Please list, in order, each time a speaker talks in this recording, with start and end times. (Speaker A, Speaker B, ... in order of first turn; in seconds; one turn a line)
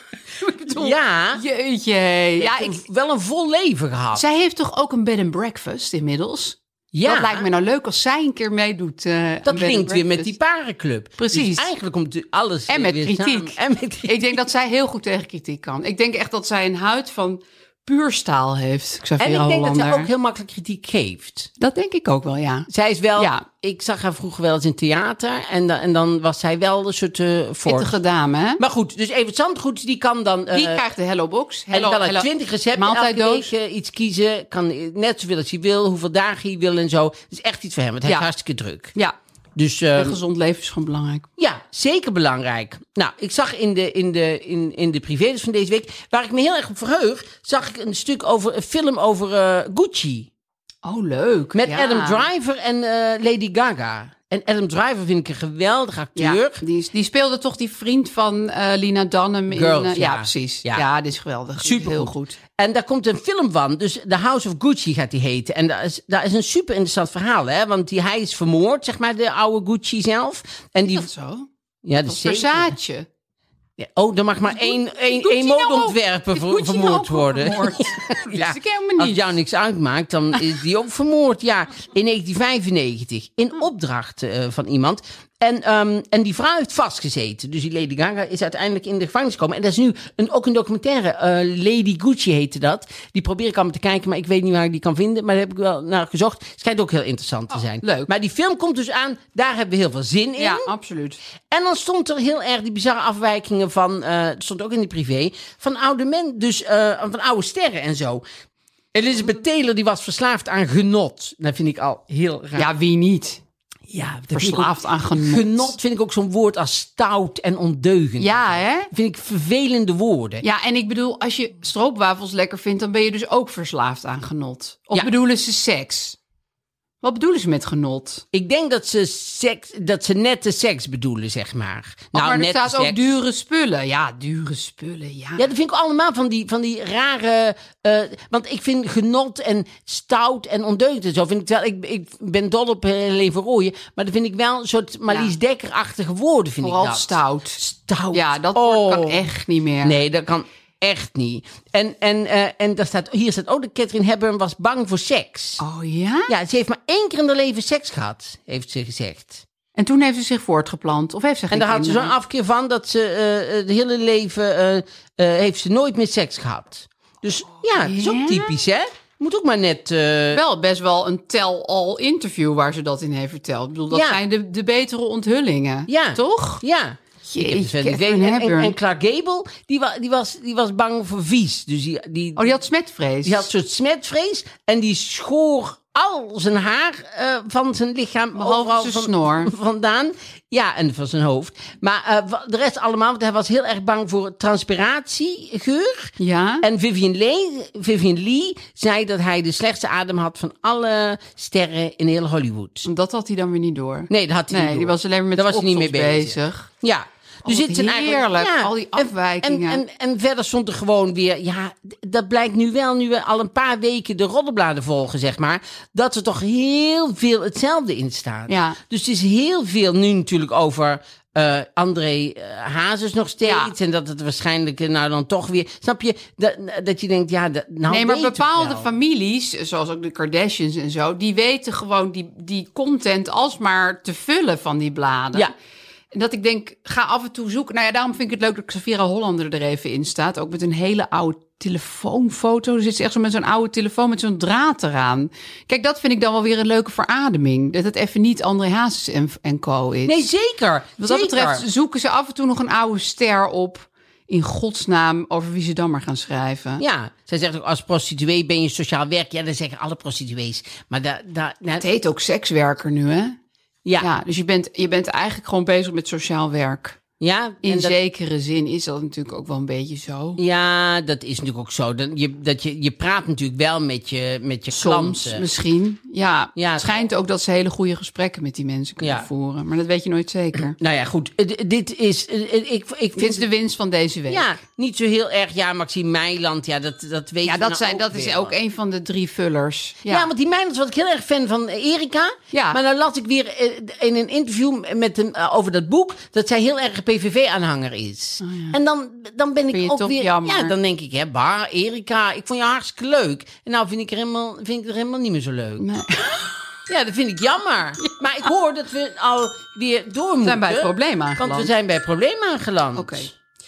Speaker A: 0.4-2.8
Speaker B: 0.7-1.4
Speaker B: 2.4-4.2
Speaker A: 4.1-10.3
Speaker B: 6.9-7.5
Speaker B: 9.4-14.4
Speaker A: 11.2-11.7
Speaker A: 12.7-20.1
Speaker B: 19.2-21.5
Speaker A: 21.6-23.4
Speaker B: 22.7-27.9
Speaker A: 27.6-28.6
Speaker B: 28.6-30.9
Speaker A: 30.5-33.5
Speaker B: 31.7-39.0
Speaker B: 39.5-40.2
Speaker A: 40.0-41.3
Speaker B: 41.4-50.3
Speaker A: 50.8-52.3
Speaker B: 51.5-56.6
Speaker A: 56.1-62.4
Speaker B: 59.5-60.8
Speaker B: 61.6-71.1
Speaker A: 70.8-71.5
Speaker B: 71.8-72.8
Speaker A: 72.0-73.1
Speaker B: 73.8-100.7
Speaker A: 74.5-79.3
Speaker A: 97.8-98.1
Speaker A: 100.4-101.2
Speaker B: 101.5-108.2
Speaker B: 108.9-112.7
Speaker A: 112.5-113.4
Speaker B: 113.9-120.4
Speaker A: 114.3-115.7
Speaker A: 118.2-118.9
Speaker A: 120.4-126.2
Speaker A: 127.0-128.2
Speaker B: 128.3-133.1
Speaker A: 132.1-135.5
Speaker B: 135.4-149.3
Speaker A: 145.1-145.3
Speaker A: 146.6-147.6
Speaker A: 148.1-150.0
Speaker B: 149.8-155.6
Speaker A: 155.6-156.3
Speaker B: 156.3-159.4
Speaker A: 159.8-162.1
Speaker B: 161.5-170.4
Speaker A: 167.8-168.6
Speaker A: 170.3-176.6
Speaker B: 173.9-174.2
Speaker B: 175.9-182.6
Speaker A: 177.2-178.8
Speaker A: 182.4-183.5
Speaker B: 183.2-202.9
Speaker A: 188.3-189.5
Speaker A: 196.2-196.6
Speaker A: 202.8-206.7
Speaker B: 204.1-228.9
Speaker A: 207.4-209.8
Speaker A: 218.5-218.8
Speaker A: 223.4-223.7
Speaker A: 227.9-235.5
Speaker A: 236.1-250.2
Speaker B: 250.1-251.7
Speaker A: 251.0-256.8
Speaker B: 256.8-261.9
Speaker A: 261.8-263.4
Speaker A: 264.0-267.0
Speaker B: 267.2-268.0
Speaker A: 267.6-270.4
Speaker B: 270.4-275.4
Speaker A: 274.7-280.8
Speaker B: 276.6-277.0
Speaker B: 279.0-279.3
Speaker B: 280.7-283.5
Speaker A: 283.1-284.5
Speaker B: 284.3-288.5
Speaker A: 287.4-290.3
Speaker B: 290.1-305.9
Speaker A: 292.5-292.8
Speaker A: 298.4-298.8
Speaker A: 299.7-300.7
Speaker A: 305.8-306.5
Speaker B: 306.9-313.3
Speaker A: 310.4-311.7
Speaker A: 312.9-313.3